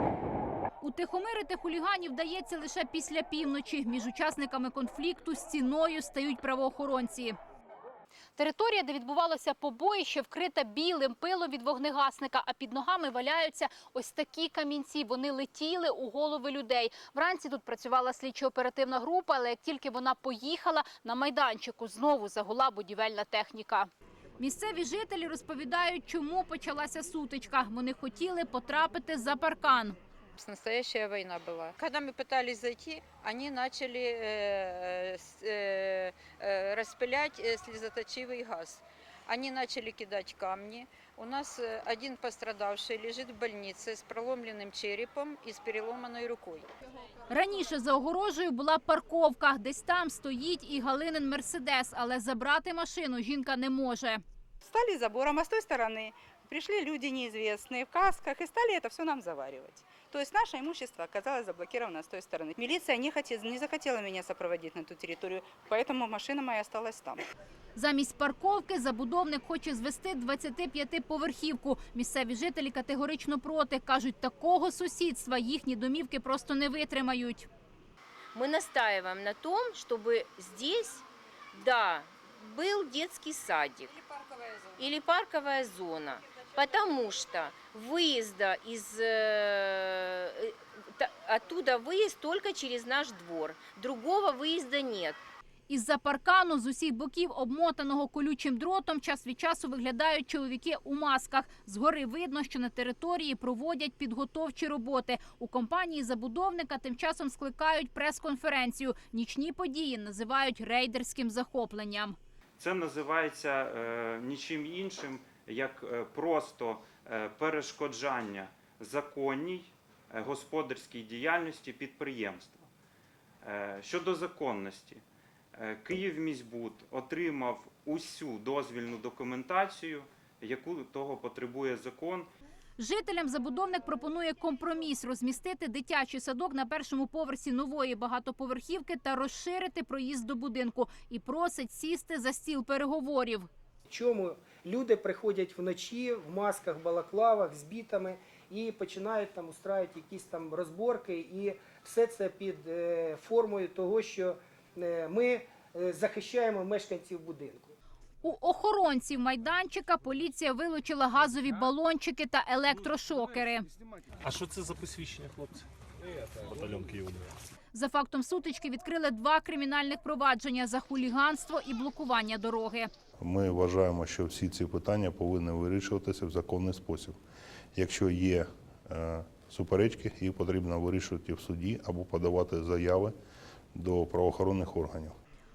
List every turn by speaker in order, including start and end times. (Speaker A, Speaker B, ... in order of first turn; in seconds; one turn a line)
Speaker A: 0.8-7.3
Speaker A: 8.4-30.0
Speaker B: 30.4-46.7
Speaker A: 47.3-54.2
Speaker C: 54.6-67.2
Speaker A: 67.8-77.5
Speaker D: 78.3-83.9
Speaker B: 83.9-84.9
Speaker D: 84.8-95.2
Speaker A: 95.7-112.2
Speaker E: 112.6-122.7
Speaker E: 123.4-125.0
Speaker E: 125.5-132.3
Speaker A: 132.8-143.5
Speaker F: 143.9-157.7
Speaker A: 158.2-163.7
Speaker G: 164.2-165.7
Speaker G: 166.4-167.3
Speaker A: 167.7-172.9
Speaker H: 173.2-177.2
Speaker H: 177.7-183.1
Speaker H: 183.7-185.2